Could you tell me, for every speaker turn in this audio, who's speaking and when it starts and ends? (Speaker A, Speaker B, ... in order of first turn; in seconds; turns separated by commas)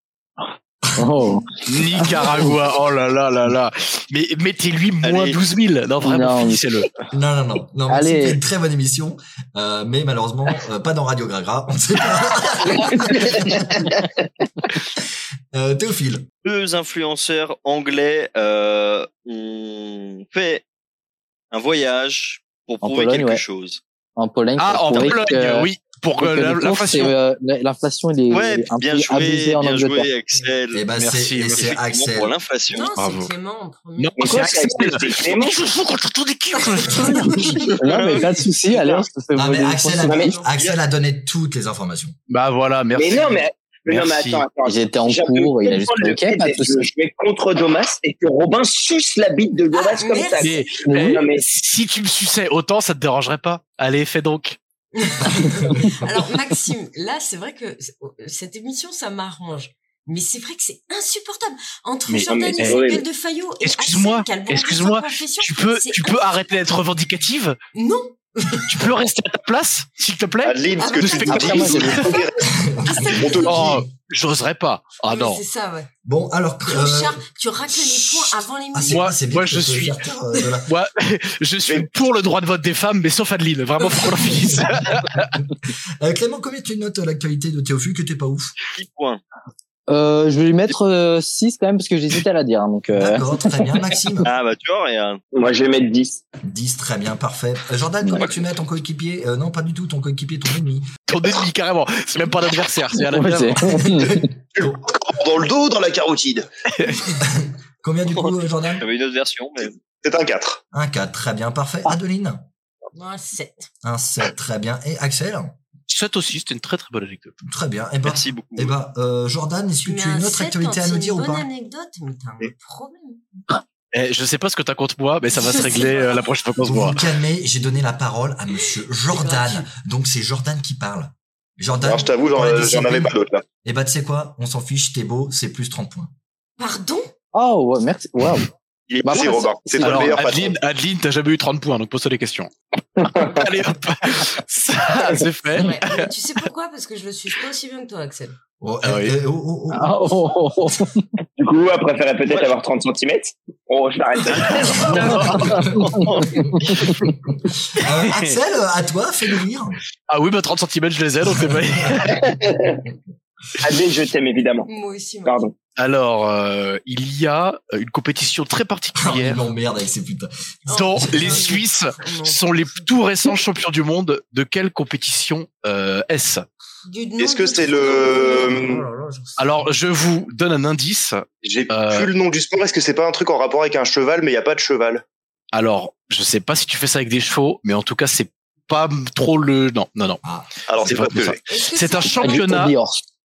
Speaker A: 1.0-2.1, Speaker B: 1.6-6.9, Speaker C: 5.0-5.4, Speaker A: 6.0-6.6, Speaker D: 7.1-13.9, Speaker A: 7.9-8.4, Speaker D: 15.5-16.3, Speaker C: 16.4-20.6, Speaker C: 21.5-23.8, Speaker A: 22.8-23.4, Speaker A: 24.2-30.1, Speaker B: 24.6-27.1, Speaker C: 28.3-30.8, Speaker D: 30.7-32.3, Speaker B: 30.9-31.8, Speaker C: 31.5-32.9, Speaker E: 32.7-34.6, Speaker B: 32.9-33.3, Speaker B: 34.0-37.8, Speaker F: 34.2-35.6, Speaker E: 36.7-37.6, Speaker A: 37.8-40.3, Speaker C: 37.8-38.3, Speaker F: 38.7-39.0, Speaker D: 39.3-42.2, Speaker F: 40.1-40.3, Speaker E: 40.2-40.5, Speaker B: 42.3-44.5, Speaker F: 42.9-51.4, Speaker A: 44.6-46.9, Speaker E: 49.7-50.7, Speaker B: 50.4-54.6, Speaker A: 50.8-51.2, Speaker E: 54.9-66.6, Speaker B: 62.1-62.9, Speaker F: 62.3-63.0, Speaker B: 63.6-67.6, Speaker E: 67.7-68.9, Speaker B: 68.7-72.2, Speaker G: 70.4-72.4, Speaker E: 70.8-73.8, Speaker A: 71.3-71.9, Speaker D: 72.4-73.8, Speaker G: 73.1-73.8, Speaker B: 73.4-75.4, Speaker E: 75.0-75.9, Speaker D: 76.0-80.7, Speaker E: 76.6-79.1, Speaker B: 78.9-80.0, Speaker E: 80.3-80.6, Speaker B: 80.7-85.4, Speaker D: 84.2-84.8, Speaker D: 85.7-88.5, Speaker C: 88.7-89.2, Speaker A: 89.9-93.5, Speaker D: 92.9-94.3, Speaker C: 94.2-95.2, Speaker F: 95.3-96.2, Speaker D: 96.4-100.9, Speaker B: 101.1-103.8, Speaker A: 103.1-104.2, Speaker D: 103.7-104.9, Speaker G: 104.5-106.5, Speaker B: 106.8-107.1, Speaker D: 107.2-108.9, Speaker C: 108.1-109.8, Speaker G: 110.0-110.6, Speaker D: 110.7-112.4, Speaker E: 112.9-113.7, Speaker D: 113.8-115.5, Speaker B: 115.9-117.4, Speaker D: 117.4-121.5, Speaker C: 118.0-118.7, Speaker E: 119.8-123.2, Speaker B: 123.9-127.0, Speaker E: 125.3-126.3, Speaker D: 126.6-136.1, Speaker E: 128.6-129.7, Speaker G: 131.8-133.4, Speaker E: 136.6-137.1, Speaker A: 137.3-138.5, Speaker G: 138.9-140.6, Speaker A: 139.0-140.2, Speaker B: 139.8-146.1, Speaker F: 143.1-143.4, Speaker E: 145.5-148.4, Speaker D: 148.6-150.0, Speaker B: 148.8-149.1, Speaker A: 149.7-151.1, Speaker F: 151.4-155.7, Speaker B: 154.3-155.6, Speaker A: 155.2-155.6, Speaker D: 155.5-155.9, Speaker D: 156.5-159.8, Speaker B: 157.8-158.4, Speaker B: 160.1-162.3, Speaker D: 161.4-162.1, Speaker F: 162.2-162.8, Speaker F: 163.6-164.7, Speaker E: 164.7-165.4, Speaker F: 165.2-165.5, Speaker B: 165.8-169.4, Speaker D: 168.9-171.5, Speaker E: 170.7-173.3, Speaker B: 170.7-176.5, Speaker E: 176.8-179.5, Speaker G: 177.2-178.8, Speaker B: 179.4-182.1, Speaker G: 181.4-185.0, Speaker B: 185.5-190.2, Speaker D: 190.2-191.3, Speaker G: 190.7-191.4, Speaker B: 190.8-192.7, Speaker E: 191.5-192.6, Speaker A: 192.2-193.0